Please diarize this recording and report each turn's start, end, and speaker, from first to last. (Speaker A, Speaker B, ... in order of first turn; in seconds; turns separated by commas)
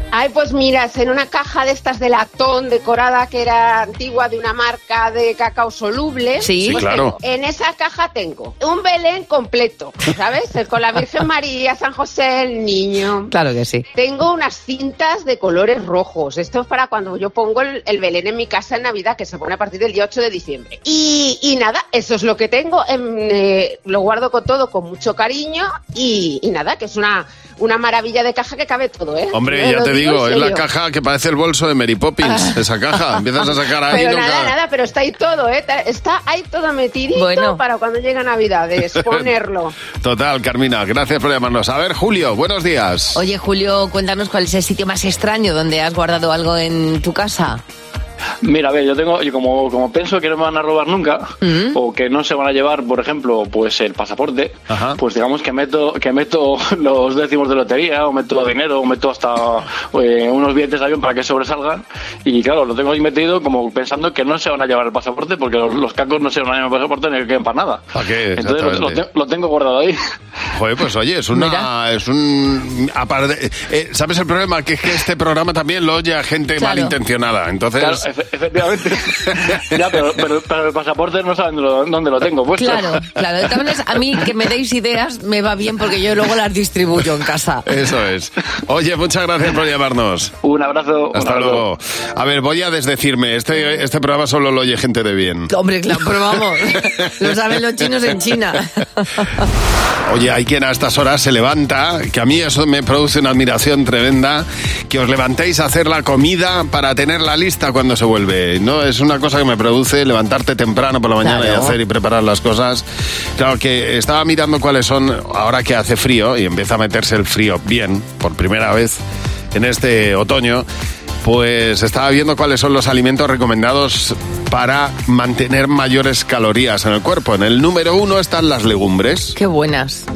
Speaker A: 0.1-13.3, Speaker B: 6.4-6.8, Speaker C: 6.7-7.2, Speaker B: 13.3-13.8, Speaker A: 13.9-30.6, Speaker C: 29.3-34.5, Speaker B: 32.2-32.6, Speaker A: 33.9-39.8, Speaker B: 37.1-37.6, Speaker C: 39.0-39.3, Speaker C: 40.0-43.2, Speaker B: 43.1-47.6, Speaker D: 48.4-67.8, Speaker B: 51.4-51.8, Speaker C: 54.7-55.0, Speaker C: 67.9-69.0, Speaker D: 68.4-70.0, Speaker C: 70.5-78.1, Speaker B: 71.3-71.7, Speaker B: 76.6-76.9, Speaker D: 77.8-83.0, Speaker B: 82.6-87.7, Speaker C: 87.7-90.3, Speaker D: 90.4-91.6, Speaker C: 91.1-95.5, Speaker B: 95.5-99.4, Speaker C: 100.0-112.8, Speaker B: 111.2-111.8, Speaker C: 113.4-119.0, Speaker C: 119.5-120.7, Speaker C: 121.2-129.4, Speaker B: 129.4-130.1